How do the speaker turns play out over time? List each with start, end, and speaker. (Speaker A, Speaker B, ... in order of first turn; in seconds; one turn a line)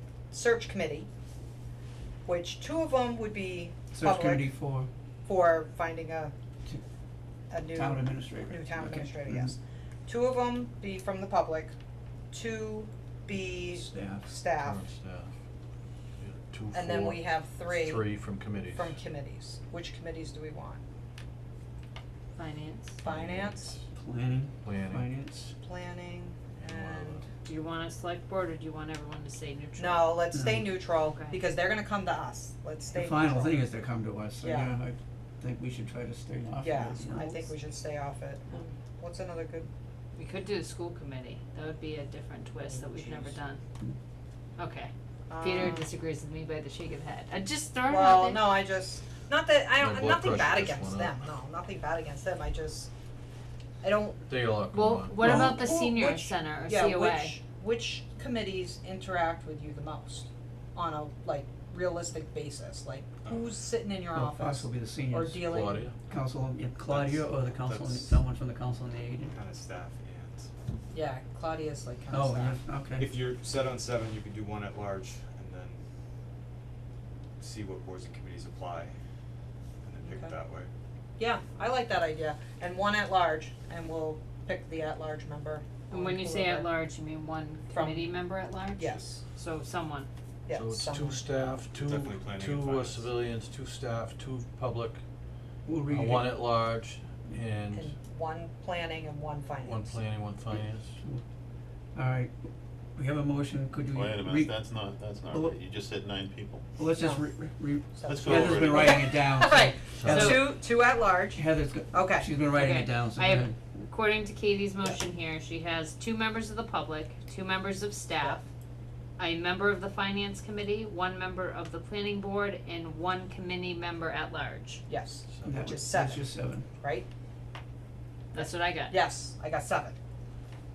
Speaker A: 0.3-1.1
Speaker A: 2.3-4.5
Speaker B: 3.9-4.9
Speaker A: 5.2-6.3
Speaker A: 7.5-11.8
Speaker B: 7.7-9.5
Speaker A: 12.3-14.8
Speaker B: 13.6-14.3
Speaker C: 14.6-15.3
Speaker C: 16.2-19.0
Speaker A: 16.7-18.1
Speaker A: 18.7-20.8
Speaker D: 22.4-23.0
Speaker A: 23.0-23.8
Speaker C: 23.0-23.8
Speaker B: 23.9-25.5
Speaker C: 24.6-25.1
Speaker A: 25.6-27.2
Speaker C: 26.6-27.2
Speaker D: 27.4-30.2
Speaker A: 29.8-33.6
Speaker B: 30.3-30.8
Speaker D: 31.1-31.4
Speaker B: 32.9-37.5
Speaker A: 34.4-34.7
Speaker A: 36.6-39.7
Speaker D: 40.1-43.6
Speaker A: 42.7-43.3
Speaker D: 44.6-48.5
Speaker A: 45.3-45.9
Speaker A: 47.9-52.9
Speaker C: 49.8-51.2
Speaker A: 53.8-54.3
Speaker C: 54.3-55.4
Speaker D: 54.7-57.4
Speaker A: 55.2-65.9
Speaker B: 55.2-55.6
Speaker E: 63.2-63.5
Speaker B: 64.1-69.3
Speaker C: 65.4-66.0
Speaker E: 66.9-68.2
Speaker E: 69.2-70.5
Speaker A: 70.9-72.6
Speaker B: 72.1-73.1
Speaker E: 73.0-75.8
Speaker E: 77.4-78.9
Speaker E: 79.8-80.7
Speaker A: 80.0-80.3
Speaker A: 81.2-86.7
Speaker D: 85.9-90.1
Speaker A: 87.7-88.1
Speaker A: 88.8-89.2
Speaker A: 90.5-91.3
Speaker C: 90.5-95.0
Speaker E: 91.7-93.1
Speaker B: 95.7-96.5
Speaker C: 95.9-97.9
Speaker A: 97.7-100.0
Speaker C: 99.6-101.0
Speaker B: 100.5-101.2
Speaker B: 102.0-102.3
Speaker B: 103.0-104.5
Speaker F: 103.9-106.7
Speaker B: 105.3-105.6
Speaker B: 106.8-110.7
Speaker A: 107.0-107.2
Speaker A: 108.0-112.3
Speaker F: 108.1-109.0
Speaker C: 110.0-110.4
Speaker D: 110.1-110.5
Speaker B: 111.3-113.6
Speaker D: 112.5-118.5
Speaker D: 119.2-124.9
Speaker A: 124.9-126.3
Speaker C: 125.3-125.9
Speaker B: 125.5-126.7
Speaker A: 126.8-127.1
Speaker D: 128.3-129.0
Speaker A: 128.3-130.0